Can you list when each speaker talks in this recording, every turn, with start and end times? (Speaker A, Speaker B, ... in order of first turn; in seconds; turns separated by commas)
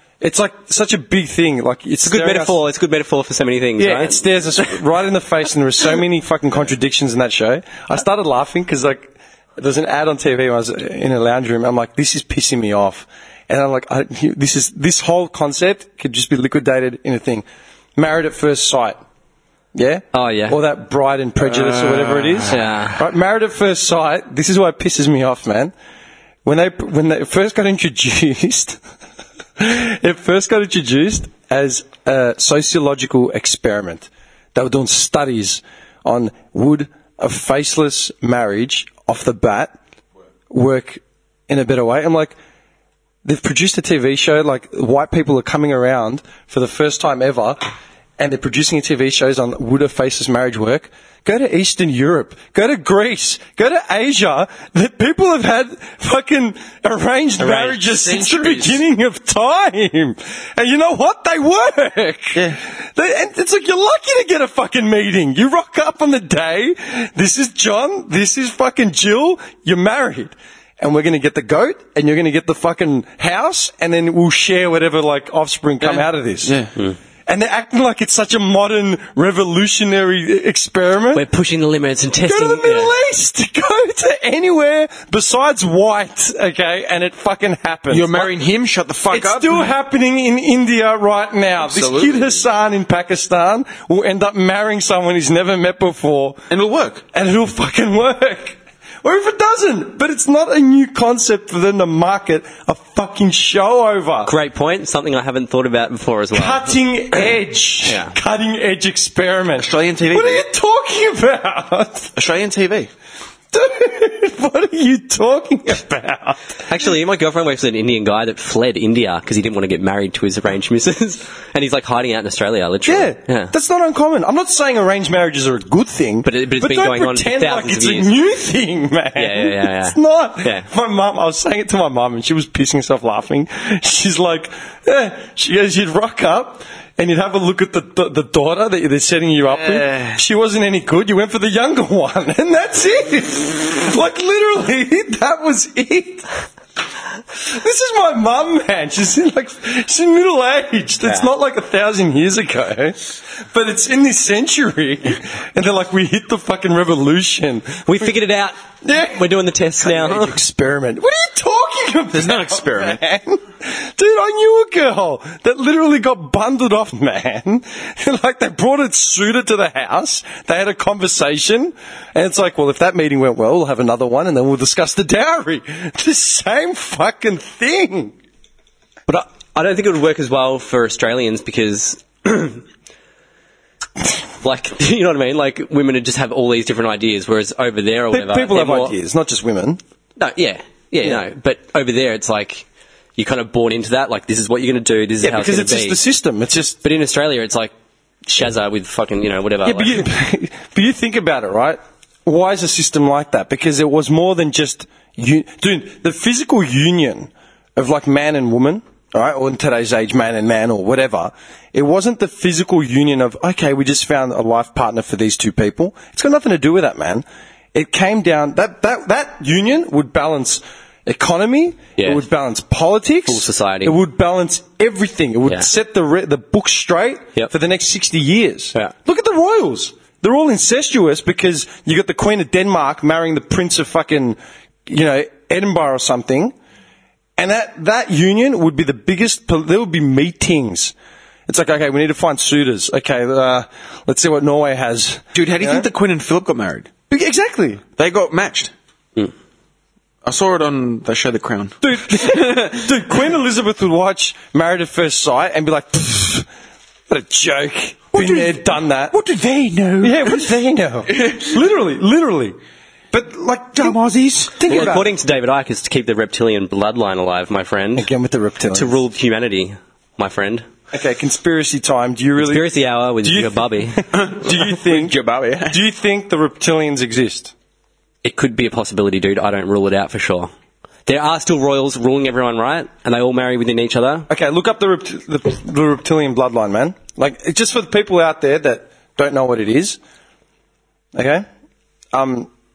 Speaker A: 0.2-2.6, Speaker B: 2.0-4.7, Speaker A: 3.8-17.4, Speaker A: 18.0-19.0, Speaker A: 19.7-25.7, Speaker B: 20.1-20.6, Speaker C: 21.4-22.6, Speaker B: 22.5-23.1, Speaker A: 26.4-28.8, Speaker A: 29.6-39.8, Speaker A: 40.5-42.4, Speaker A: 43.2-76.5, Speaker B: 57.4-58.2, Speaker C: 58.1-58.8, Speaker C: 75.8-76.7, Speaker A: 77.3-81.2, Speaker B: 81.1-82.9, Speaker A: 82.2-88.3, Speaker C: 87.9-89.7, Speaker A: 89.1-96.4, Speaker C: 91.6-92.4, Speaker C: 96.5-97.0, Speaker A: 97.1-104.3, Speaker B: 104.2-106.7, Speaker A: 106.3-112.1, Speaker B: 107.9-108.2, Speaker C: 109.6-110.4, Speaker C: 112.2-112.9, Speaker A: 113.5-116.9, Speaker B: 116.7-123.5, Speaker A: 122.9-146.3, Speaker B: 126.2-128.1, Speaker B: 129.2-130.7, Speaker A: 147.3-158.1, Speaker B: 157.9-160.4, Speaker A: 158.8-159.3, Speaker A: 159.8-178.2, Speaker C: 162.1-163.0, Speaker B: 179.1-182.6, Speaker B: 184.4-189.0, Speaker A: 188.1-189.8, Speaker B: 190.2-192.7, Speaker B: 193.2-196.0, Speaker A: 195.2-196.8, Speaker B: 196.8-197.7, Speaker B: 198.3-200.1, Speaker A: 199.6-236.6, Speaker B: 222.0-222.2, Speaker B: 223.3-224.0, Speaker A: 237.4-240.9, Speaker A: 241.5-245.9, Speaker C: 245.3-246.9, Speaker A: 247.1-247.8, Speaker C: 248.0-248.7, Speaker C: 250.2-252.9, Speaker A: 251.8-256.5, Speaker A: 257.1-259.1, Speaker C: 258.1-260.6, Speaker A: 260.0-262.6, Speaker C: 261.1-261.6, Speaker A: 263.1-264.0, Speaker C: 263.8-264.7, Speaker A: 264.5-265.1, Speaker B: 264.7-268.1, Speaker A: 267.9-269.0, Speaker B: 268.7-270.7, Speaker A: 270.9-272.7, Speaker B: 272.4-274.1, Speaker A: 273.2-275.1, Speaker C: 274.1-275.8, Speaker A: 275.7-277.5, Speaker B: 278.2-280.5, Speaker B: 281.1-284.3, Speaker A: 284.3-290.0, Speaker A: 291.1-291.4, Speaker A: 292.1-292.5